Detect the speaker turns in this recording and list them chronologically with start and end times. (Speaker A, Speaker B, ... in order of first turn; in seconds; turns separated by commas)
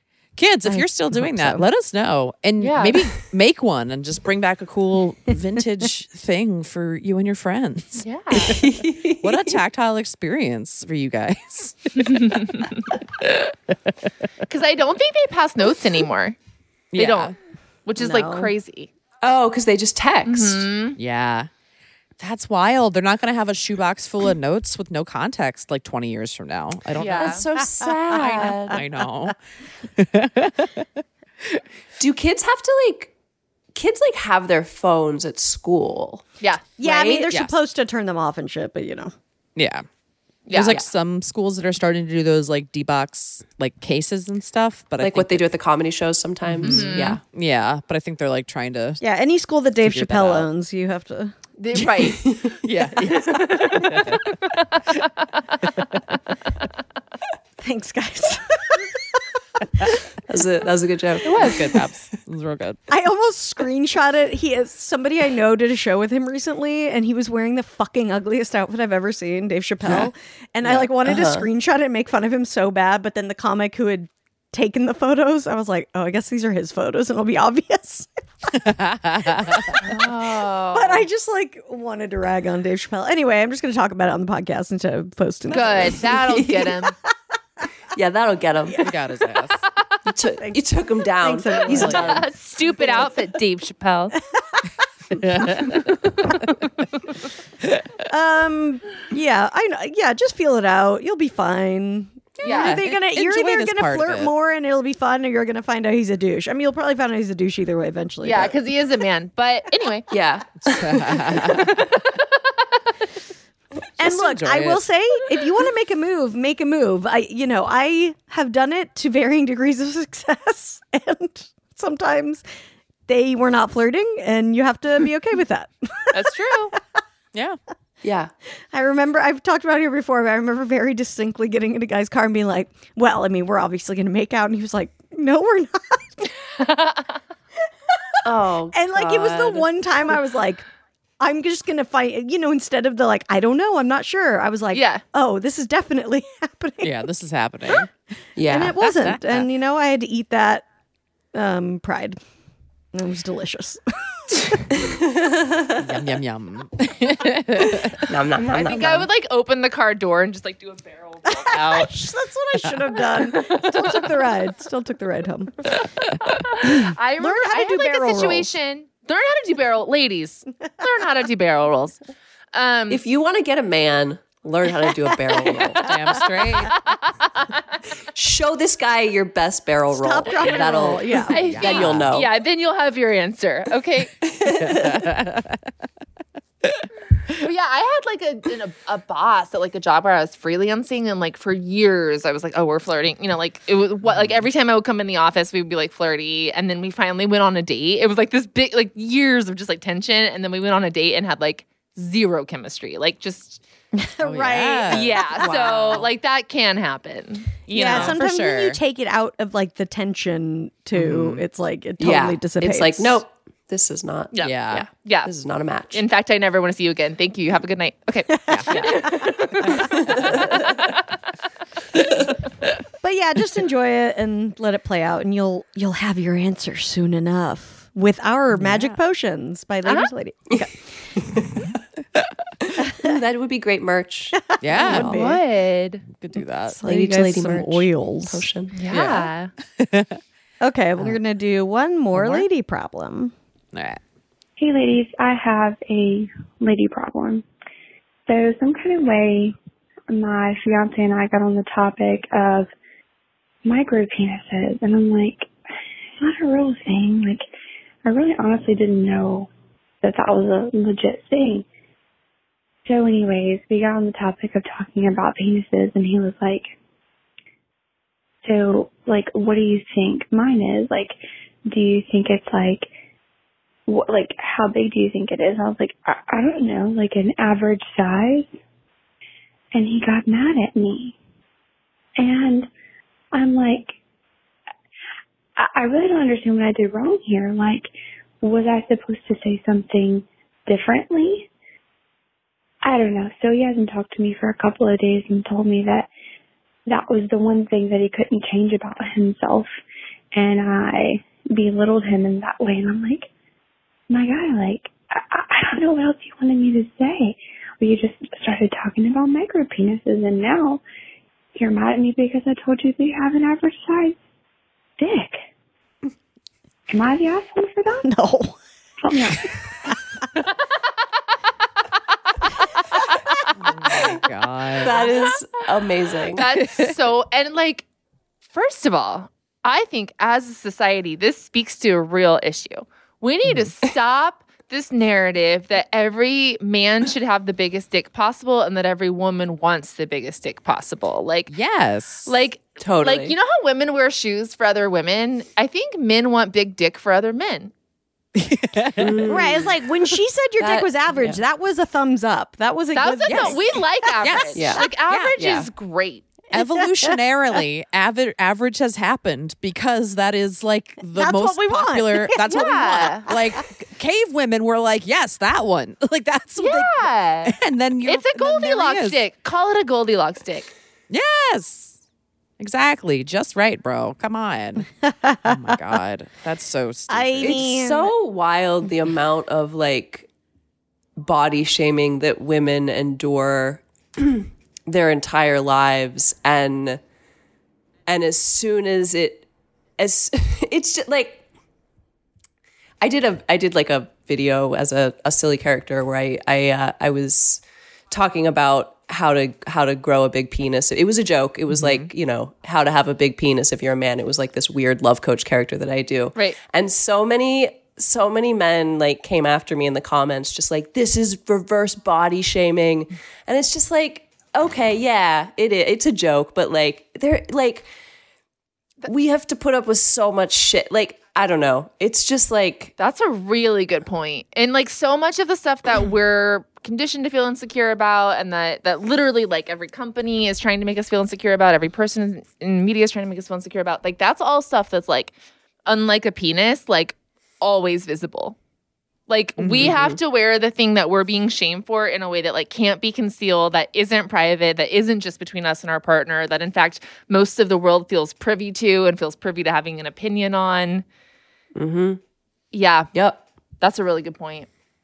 Speaker A: 0.4-8.6, Speaker B: 0.7-1.6, Speaker C: 2.6-3.0, Speaker C: 8.0-8.6, Speaker D: 8.4-9.6, Speaker A: 9.2-12.6, Speaker C: 12.1-12.8, Speaker C: 14.5-16.4, Speaker A: 16.9-17.3, Speaker C: 17.0-17.3, Speaker C: 17.9-18.9, Speaker B: 18.0-18.5, Speaker D: 19.2-20.7, Speaker C: 20.3-21.0, Speaker A: 21.0-21.5, Speaker A: 22.2-29.4, Speaker C: 27.0-27.4, Speaker D: 27.2-28.8, Speaker A: 29.9-30.9, Speaker D: 32.0-33.1, Speaker D: 33.7-36.3, Speaker B: 36.8-39.1, Speaker D: 36.8-37.3, Speaker A: 39.6-39.9, Speaker C: 40.5-40.8, Speaker A: 40.5-45.5, Speaker D: 45.0-47.2, Speaker A: 46.5-49.0, Speaker C: 46.6-47.2, Speaker B: 49.0-51.4, Speaker A: 49.8-50.5, Speaker C: 51.6-52.2, Speaker D: 52.2-52.6, Speaker A: 52.6-54.3, Speaker B: 57.6-59.1, Speaker D: 60.3-61.8, Speaker C: 61.2-61.6, Speaker A: 61.4-62.8, Speaker B: 62.9-78.5, Speaker D: 70.7-71.5, Speaker A: 78.5-79.8, Speaker B: 79.4-79.9, Speaker C: 79.8-81.1, Speaker B: 80.7-86.1, Speaker C: 85.5-87.0, Speaker D: 86.1-86.8, Speaker D: 87.9-88.9, Speaker A: 88.8-89.6, Speaker D: 90.1-92.3, Speaker B: 90.4-93.1, Speaker A: 91.7-92.2, Speaker C: 91.7-94.2, Speaker A: 95.2-95.9, Speaker B: 98.1-108.6, Speaker C: 102.4-102.8, Speaker A: 102.5-104.3, Speaker C: 108.2-110.1, Speaker D: 110.1-111.6, Speaker A: 110.7-111.8, Speaker C: 111.6-111.9, Speaker B: 114.0-122.4, Speaker A: 114.0-114.8, Speaker B: 123.1-126.8, Speaker C: 126.1-126.7, Speaker D: 128.0-128.3, Speaker B: 128.7-136.3, Speaker C: 136.6-137.0, Speaker D: 138.2-139.7, Speaker B: 138.7-140.6, Speaker B: 141.2-147.1, Speaker C: 144.7-145.0, Speaker A: 146.8-147.9, Speaker D: 148.4-148.8, Speaker B: 148.4-150.7, Speaker A: 148.8-149.5, Speaker B: 151.3-152.2, Speaker B: 152.9-154.9, Speaker D: 154.8-155.7, Speaker A: 155.8-158.0, Speaker D: 158.1-159.1, Speaker C: 158.5-161.9, Speaker B: 161.3-165.8, Speaker C: 166.4-172.0, Speaker B: 166.7-168.5, Speaker C: 172.5-173.0, Speaker D: 172.9-175.9, Speaker A: 175.8-176.7, Speaker C: 176.9-177.5, Speaker D: 178.1-182.3, Speaker B: 179.9-181.6, Speaker C: 181.3-184.1, Speaker A: 181.5-182.1, Speaker D: 184.2-185.1, Speaker A: 184.5-185.6, Speaker C: 187.4-203.6, Speaker A: 194.1-194.4, Speaker B: 204.0-206.0, Speaker A: 204.2-205.2, Speaker C: 204.9-208.2, Speaker D: 205.4-206.1, Speaker B: 207.7-213.2, Speaker A: 207.8-208.8, Speaker A: 210.9-211.4, Speaker D: 212.0-216.0, Speaker C: 214.3-215.3, Speaker A: 214.4-214.8, Speaker C: 215.9-219.8, Speaker B: 218.5-219.3, Speaker A: 218.5-219.0, Speaker A: 219.7-220.6, Speaker D: 219.8-220.6, Speaker B: 223.0-231.1, Speaker A: 228.6-228.9, Speaker D: 231.3-231.7, Speaker D: 233.0-235.3, Speaker B: 234.6-235.4, Speaker A: 234.6-235.1, Speaker C: 235.0-236.0, Speaker A: 236.2-236.8, Speaker B: 236.3-238.5, Speaker D: 236.8-238.8, Speaker C: 238.7-239.5, Speaker A: 238.9-240.2, Speaker B: 240.6-243.3, Speaker A: 242.1-242.5, Speaker A: 243.7-244.0, Speaker E: 244.6-247.4, Speaker E: 248.3-249.6, Speaker E: 250.1-252.7, Speaker E: 253.7-255.5, Speaker E: 256.2-257.5, Speaker E: 258.1-259.5, Speaker E: 260.0-261.7, Speaker E: 262.9-266.7, Speaker E: 268.4-271.2, Speaker E: 271.7-272.9, Speaker E: 273.9-278.6, Speaker E: 279.7-281.2, Speaker E: 282.2-282.7, Speaker E: 283.3-283.9, Speaker E: 285.6-291.5, Speaker E: 292.8-296.1, Speaker E: 296.9-299.7, Speaker E: 300.3-303.3, Speaker E: 304.1-310.8, Speaker E: 311.6-314.2, Speaker E: 315.0-315.4, Speaker E: 316.9-318.1, Speaker B: 318.0-318.6, Speaker E: 319.0-319.5, Speaker A: 323.6-325.0, Speaker D: 324.8-326.4, Speaker C: 326.4-327.9, Speaker C: 328.5-341.6, Speaker A: 341.5-342.3, Speaker C: 342.3-347.7, Speaker D: 342.8-343.4, Speaker A: 348.4-349.3, Speaker D: 349.0-349.7, Speaker B: 349.2-354.5, Speaker D: 350.6-351.4, Speaker C: 352.9-356.2, Speaker A: 353.3-353.6, Speaker A: 354.2-354.6, Speaker D: 354.6-354.9, Speaker A: 355.1-355.3, Speaker D: 355.4-355.7, Speaker B: 356.5-357.6, Speaker A: 356.5-369.2, Speaker B: 361.0-363.6, Speaker C: 362.5-363.3, Speaker C: 366.6-370.7, Speaker A: 371.1-372.0, Speaker A: 372.6-374.9, Speaker B: 375.0-375.8, Speaker A: 375.4-377.6, Speaker B: 377.1-378.1, Speaker D: 377.4-380.3, Speaker D: 381.2-387.0, Speaker D: 388.1-389.5, Speaker D: 390.0-391.4, Speaker D: 393.0-417.9, Speaker A: 401.7-402.1, Speaker D: 419.1-422.9, Speaker C: 423.0-435.3, Speaker C: 435.9-438.6, Speaker C: 439.3-451.1, Speaker A: 439.6-439.9, Speaker D: 439.8-440.2, Speaker D: 451.8-452.2, Speaker C: 452.7-453.1, Speaker D: 453.1-453.4, Speaker C: 453.8-454.7